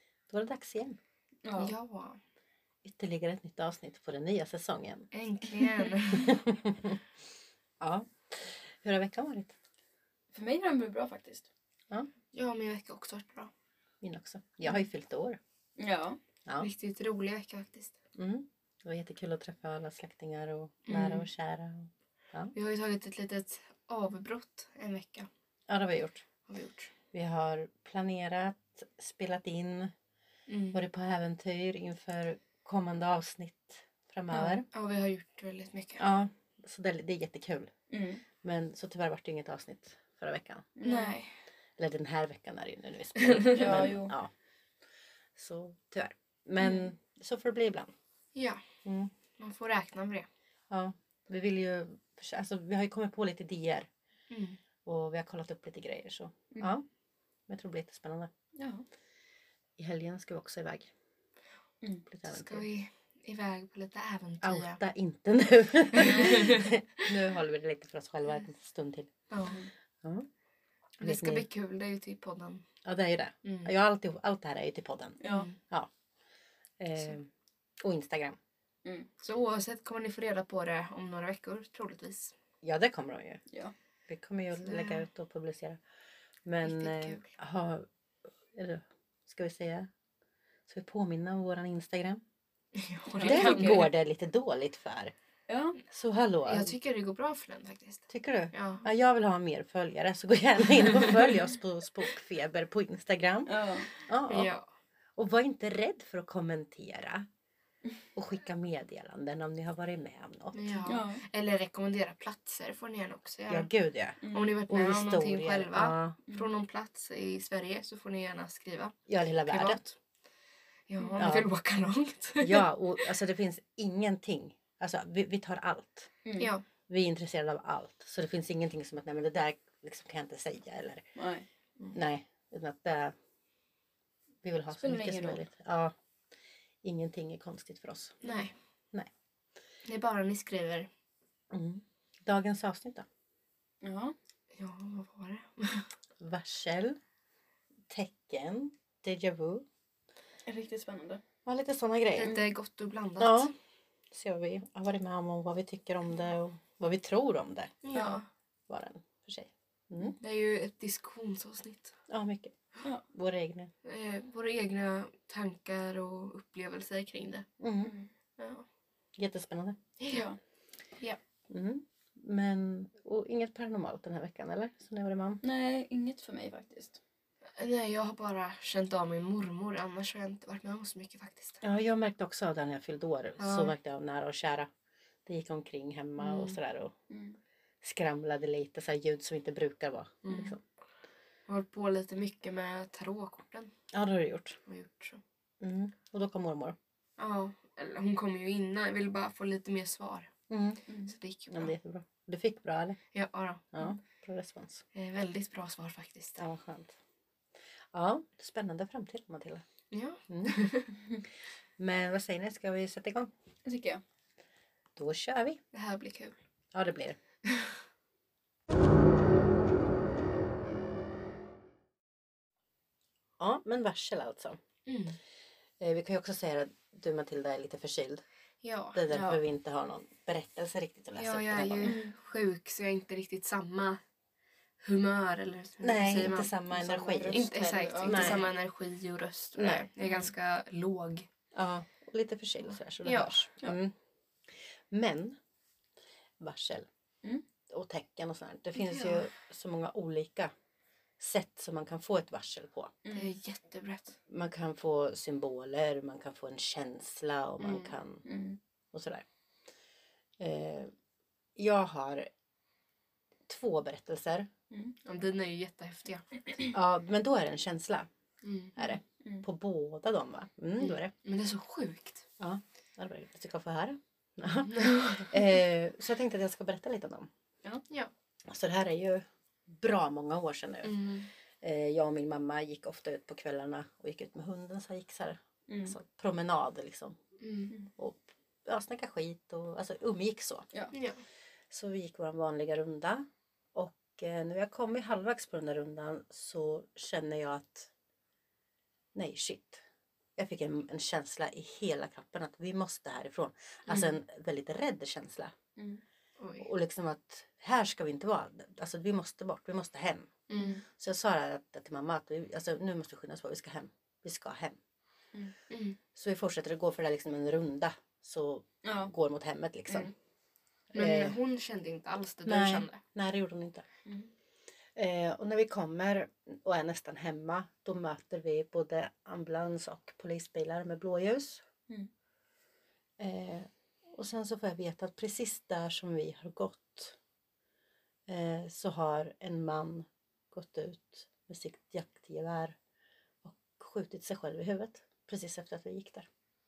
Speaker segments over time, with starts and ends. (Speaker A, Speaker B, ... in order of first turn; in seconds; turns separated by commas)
Speaker A: 0.3-1.0, Speaker B: 1.4-1.7, Speaker C: 1.6-2.2, Speaker A: 2.8-5.1, Speaker C: 5.1-6.3, Speaker A: 6.1-7.0, Speaker A: 7.8-9.6, Speaker B: 10.3-11.5, Speaker C: 12.3-13.5, Speaker A: 14.0-15.4, Speaker B: 15.8-16.2, Speaker C: 16.6-17.9, Speaker A: 18.1-22.5, Speaker C: 20.9-21.3, Speaker C: 22.6-25.3, Speaker A: 25.7-26.2, Speaker C: 26.5-26.9, Speaker A: 27.1-29.9, Speaker C: 30.5-30.8, Speaker A: 30.7-34.7, Speaker B: 34.3-34.6, Speaker C: 34.6-36.1, Speaker A: 36.0-37.7, Speaker B: 37.9-38.2, Speaker A: 38.4-40.7, Speaker B: 40.8-41.2, Speaker C: 40.8-41.3, Speaker A: 41.8-44.3, Speaker C: 43.2-43.6, Speaker B: 43.5-44.1, Speaker A: 45.4-47.9, Speaker B: 46.6-46.9, Speaker C: 48.3-48.6, Speaker A: 48.8-49.1, Speaker C: 49.4-50.3, Speaker A: 50.7-53.9, Speaker C: 54.3-54.6, Speaker A: 54.8-56.8, Speaker A: 57.5-58.3, Speaker B: 58.6-58.8, Speaker A: 59.8-60.9, Speaker A: 62.1-62.7, Speaker C: 62.3-64.8, Speaker A: 64.4-69.1, Speaker C: 65.9-67.1, Speaker C: 69.3-69.6, Speaker C: 71.0-72.7, Speaker A: 71.0-71.5, Speaker A: 72.8-75.9, Speaker C: 73.4-73.7, Speaker B: 75.2-75.5, Speaker C: 75.2-75.6, Speaker A: 76.8-77.3, Speaker A: 77.8-78.4, Speaker C: 79.2-82.3, Speaker A: 82.6-83.4, Speaker A: 84.1-85.8, Speaker C: 84.6-85.0, Speaker A: 86.5-87.9, Speaker C: 86.6-87.3, Speaker A: 88.5-89.9, Speaker A: 90.7-92.2, Speaker C: 92.8-93.9, Speaker B: 93.1-93.8, Speaker A: 93.2-95.1, Speaker B: 95.5-95.8, Speaker A: 95.9-96.8, Speaker C: 96.5-98.9, Speaker A: 98.1-104.5, Speaker B: 103.5-103.9, Speaker C: 104.2-104.7, Speaker A: 105.2-107.2, Speaker A: 108.1-110.8, Speaker C: 110.5-113.7, Speaker B: 110.9-111.2, Speaker A: 113.5-116.2, Speaker B: 114.2-114.5, Speaker C: 114.3-120.0, Speaker A: 119.1-119.8, Speaker C: 120.9-123.0, Speaker B: 121.0-121.3, Speaker A: 121.2-121.5, Speaker A: 122.4-126.2, Speaker B: 126.2-126.5, Speaker C: 126.4-126.6, Speaker A: 126.9-131.1, Speaker B: 131.2-131.5, Speaker A: 131.9-133.1, Speaker A: 134.4-135.9, Speaker B: 134.7-135.4, Speaker A: 136.8-138.2, Speaker C: 138.2-138.5, Speaker C: 139.9-140.9, Speaker A: 141.5-143.1, Speaker B: 143.8-144.1, Speaker C: 144.5-145.9, Speaker A: 146.2-147.0, Speaker A: 147.9-149.6, Speaker B: 150.5-151.2, Speaker A: 151.4-152.3, Speaker C: 152.1-153.5, Speaker B: 152.2-152.5, Speaker A: 153.2-153.5, Speaker A: 154.1-157.8, Speaker C: 157.8-158.2, Speaker B: 157.9-158.2, Speaker A: 158.7-160.2, Speaker C: 160.2-161.9, Speaker A: 162.1-162.6, Speaker A: 163.1-163.7, Speaker C: 163.8-167.5, Speaker A: 167.6-167.9, Speaker B: 167.8-168.1, Speaker C: 168.4-168.7, Speaker A: 169.2-169.8, Speaker C: 170.0-170.2, Speaker B: 170.1-170.4, Speaker A: 171.5-175.4, Speaker B: 175.4-177.0, Speaker C: 177.6-181.6, Speaker A: 181.6-184.7, Speaker C: 183.4-183.7, Speaker A: 185.2-186.9, Speaker C: 186.2-186.6, Speaker B: 187.1-187.4, Speaker A: 187.8-190.6, Speaker C: 190.2-190.6, Speaker C: 191.5-193.7, Speaker A: 193.9-194.6, Speaker C: 194.7-195.2, Speaker A: 195.6-196.8, Speaker C: 197.2-200.3, Speaker A: 200.5-200.8, Speaker B: 200.9-201.1, Speaker C: 201.1-201.7, Speaker A: 201.5-203.0, Speaker C: 203.1-203.8, Speaker A: 203.7-204.8, Speaker C: 204.9-206.4, Speaker A: 206.4-206.9, Speaker A: 207.9-209.6, Speaker C: 209.9-210.9, Speaker A: 210.3-210.6, Speaker A: 211.8-213.3, Speaker B: 213.7-214.0, Speaker A: 214.9-215.6, Speaker C: 215.7-216.4, Speaker A: 216.7-217.2, Speaker C: 217.4-217.7, Speaker A: 223.4-224.6, Speaker C: 224.9-225.2, Speaker A: 225.8-228.2, Speaker C: 228.6-229.0, Speaker A: 228.9-232.0, Speaker B: 229.1-229.4, Speaker C: 231.2-234.0, Speaker B: 231.8-232.1, Speaker C: 234.8-236.5, Speaker A: 235.8-237.4, Speaker B: 236.7-238.4, Speaker C: 237.3-241.3, Speaker A: 238.0-238.5, Speaker A: 239.6-239.9, Speaker A: 241.5-243.9, Speaker C: 243.0-243.4, Speaker A: 244.5-245.4, Speaker A: 246.4-246.9, Speaker A: 247.7-250.5, Speaker C: 248.8-249.3, Speaker A: 251.2-252.9, Speaker B: 253.0-253.3, Speaker C: 253.1-254.2, Speaker A: 254.3-258.2, Speaker C: 257.6-257.9, Speaker B: 258.2-258.6, Speaker A: 258.9-259.2, Speaker A: 260.4-260.9, Speaker A: 261.6-262.3, Speaker A: 263.5-264.5, Speaker C: 265.0-266.6, Speaker A: 266.7-268.1, Speaker C: 268.4-268.9, Speaker A: 268.8-271.1, Speaker B: 269.2-269.4, Speaker C: 270.8-272.2, Speaker A: 272.4-277.3, Speaker C: 274.7-275.3, Speaker A: 278.5-281.0, Speaker C: 280.8-281.3, Speaker A: 281.6-287.2, Speaker B: 285.7-285.9, Speaker C: 287.4-287.7, Speaker A: 287.9-290.7, Speaker C: 290.9-291.2, Speaker A: 291.7-297.9, Speaker A: 299.1-299.8, Speaker A: 300.4-305.5, Speaker B: 305.8-306.0, Speaker C: 306.4-306.7, Speaker A: 306.6-310.3, Speaker C: 310.5-310.8, Speaker B: 310.6-310.8, Speaker A: 310.9-314.8, Speaker C: 315.7-316.0, Speaker A: 316.1-320.1, Speaker B: 318.8-319.1, Speaker A: 320.9-321.4, Speaker C: 320.9-323.0, Speaker A: 322.4-323.8, Speaker B: 324.1-324.3, Speaker A: 324.9-331.6, Speaker A: 333.2-337.2, Speaker A: 338.3-342.8, Speaker A: 343.4-346.3